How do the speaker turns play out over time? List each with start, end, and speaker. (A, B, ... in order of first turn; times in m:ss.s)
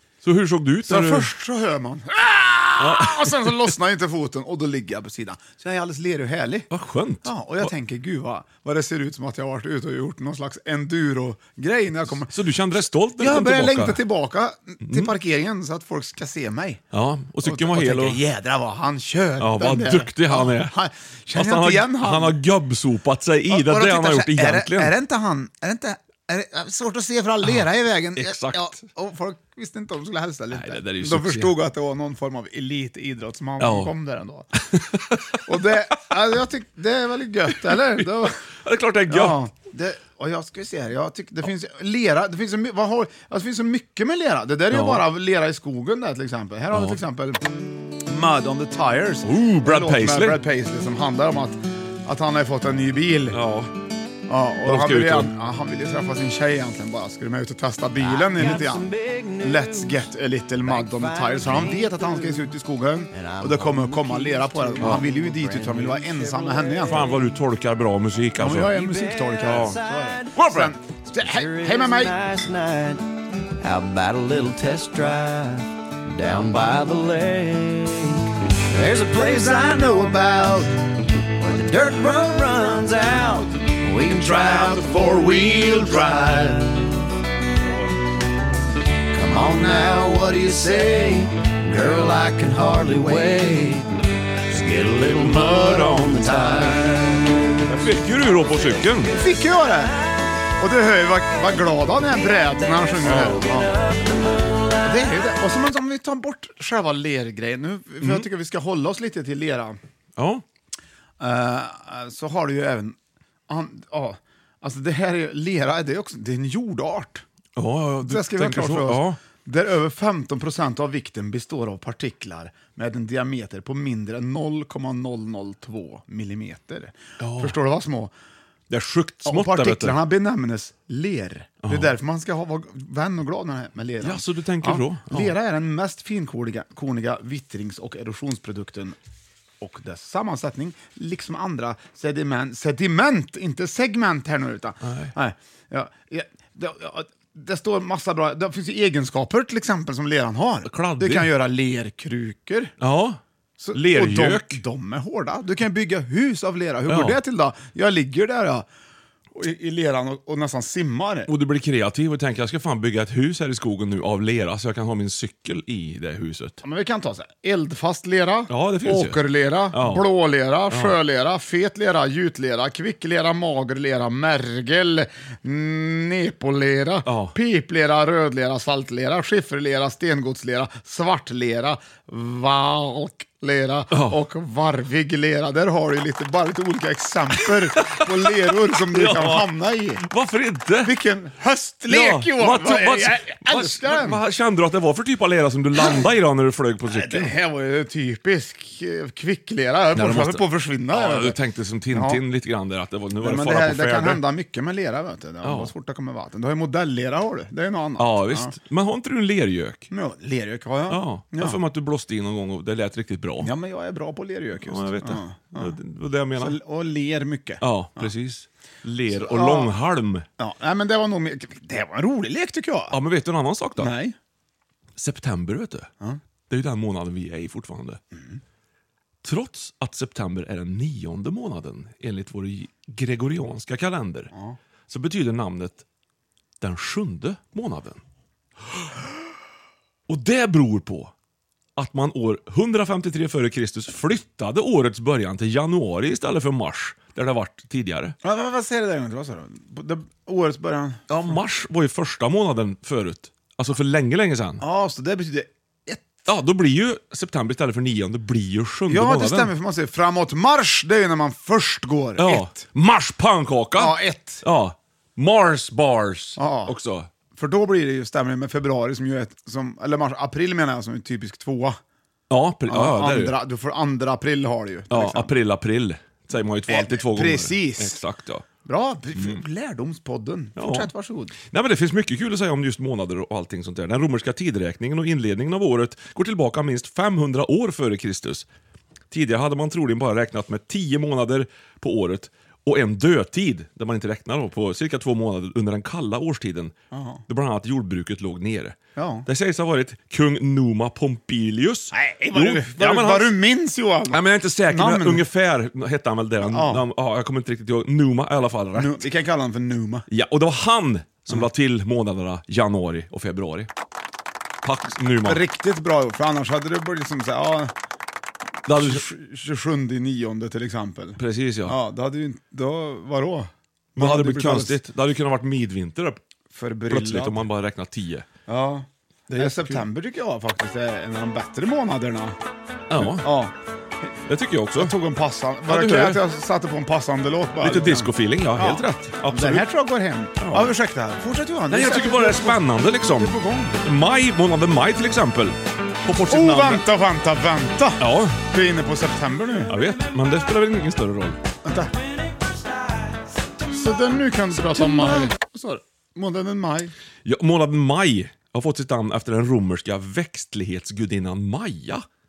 0:00.2-0:01.3 A
0:00.9-0:06.7 B
0:02.8-0:03.6 A
0:06.7-0:07.7 A
0:07.2-0:12.3 B
0:12.3-0:14.0 A
0:13.2-0:16.8 B
0:14.8-0:15.1 A
0:16.9-0:18.2 A
0:17.4-0:22.4 B
0:19.4-0:20.8 A
0:21.3-0:24.9 A
0:23.5-0:34.6 B
0:28.2-0:28.8 A
0:30.5-0:31.6 A
0:33.6-0:33.9 A
0:34.6-0:35.4 A
0:35.4-0:38.4 B
0:38.6-0:39.4 A
0:39.1-0:53.4 B
0:44.7-0:45.0 A
0:46.7-0:47.0 A
0:49.2-0:50.4 A
0:53.3-0:53.7 A
0:54.3-1:07.1 B
0:54.6-0:55.3 A
0:58.0-1:00.1 C
1:00.6-1:02.4 C
1:03.1-1:07.1 C
1:06.9-1:08.7 A
1:08.4-1:12.1 B
1:08.7-1:10.4 C
1:09.4-1:09.8 A
1:10.3-1:10.7 A
1:11.2-1:13.0 C
1:13.6-1:27.0 C
1:24.1-1:24.6 B
1:29.1-1:33.9 C
1:34.5-1:37.4 C
1:37.7-1:39.2 A
1:39.1-1:40.0 B
1:40.6-1:43.7 B
1:43.0-1:43.5 A
1:44.8-1:49.8 B
1:48.0-1:48.3 A
1:50.2-1:50.4 A
1:51.2-1:53.0 B
1:53.5-1:57.2 B
1:57.6-1:59.2 A
1:58.0-2:08.1 B
2:07.2-2:07.6 A
2:08.7-2:10.0 A
2:09.2-2:19.0 B
2:11.6-2:11.9 A
2:14.0-2:15.3 A
2:19.6-2:32.7 B
2:24.8-2:25.1 A
2:30.6-2:31.3 A
2:32.8-2:33.2 A
2:33.6-2:38.7 B
2:33.7-2:34.6 A
2:36.9-2:37.2 A
2:39.3-2:41.3 B
2:41.3-2:46.6 A
2:46.6-3:10.0 B
2:48.5-2:49.2 A
2:49.7-2:50.0 A
2:50.7-2:51.0 A
2:57.0-2:57.3 A
3:03.9-3:04.2 A
3:07.8-3:08.3 A
3:08.9-3:09.5 A
3:10.0-3:11.0 A
3:10.8-3:14.2 B
3:11.9-3:17.3 A
3:15.8-3:16.0 B
3:16.9-3:21.4 B
3:19.9-3:24.2 A
3:21.9-3:22.2 B
3:23.2-3:28.5 B
3:25.4-3:25.7 A
3:28.0-3:29.9 A
3:29.9-3:31.6 B
3:30.9-3:33.5 A
3:33.4-3:35.8 B
3:34.6-3:36.6 A
3:36.4-3:38.1 B
3:37.6-3:40.2 A
3:39.1-3:39.7 B
3:40.4-3:43.0 B
3:42.9-3:43.9 A
3:43.8-3:44.2 B
3:45.0-3:45.9 A
3:46.5-3:48.0 A
3:48.1-3:48.4 B
3:49.2-3:54.3 A
3:54.9-3:55.8 A
3:56.6-3:58.0 A
4:00.1-4:01.1 A
4:01.8-4:08.2 A
4:08.2-4:11.0 B
4:11.1-4:14.6 A
4:14.6-4:16.2 B
4:16.3-4:19.5 A
4:18.9-4:22.6 B
4:22.2-4:27.1 A
4:23.8-4:24.4 B
4:26.4-4:26.7 B
4:27.3-4:31.8 B
4:32.3-4:33.3 A
4:32.7-4:35.3 B
4:34.9-4:38.4 A
4:36.7-4:38.0 B
4:38.6-4:41.3 B
4:40.6-4:40.9 A
4:41.4-4:48.4 A
4:49.1-4:56.7 A
4:56.9-4:57.2 B
4:57.3-5:03.4 A
4:59.0-4:59.3 B
5:01.9-5:05.2 B
5:04.1-5:09.0 A
5:06.4-5:06.8 B
5:08.7-5:10.1 B
5:10.1-5:13.7 A
5:14.6-5:15.4 A
5:15.2-5:17.7 B
5:18.6-5:19.0 A
5:18.8-5:24.8 B
5:21.2-5:21.8 A
5:24.0-5:26.2 A
5:26.5-5:27.4 B
5:26.9-5:28.3 A
5:28.5-5:32.4 B
5:29.3-5:29.8 A
5:32.9-5:33.3 A
5:33.0-5:33.5 B
5:34.3-5:34.9 A
5:34.8-5:43.8 B
5:35.7-5:36.2 A
5:37.6-5:39.6 A
5:40.4-5:40.7 A
5:41.7-5:46.8 A
5:46.3-5:49.8 B
5:48.0-5:48.4 A
5:49.7-5:51.4 A
5:51.6-5:51.9 B
5:53.7-5:56.9 B
5:57.2-6:02.0 A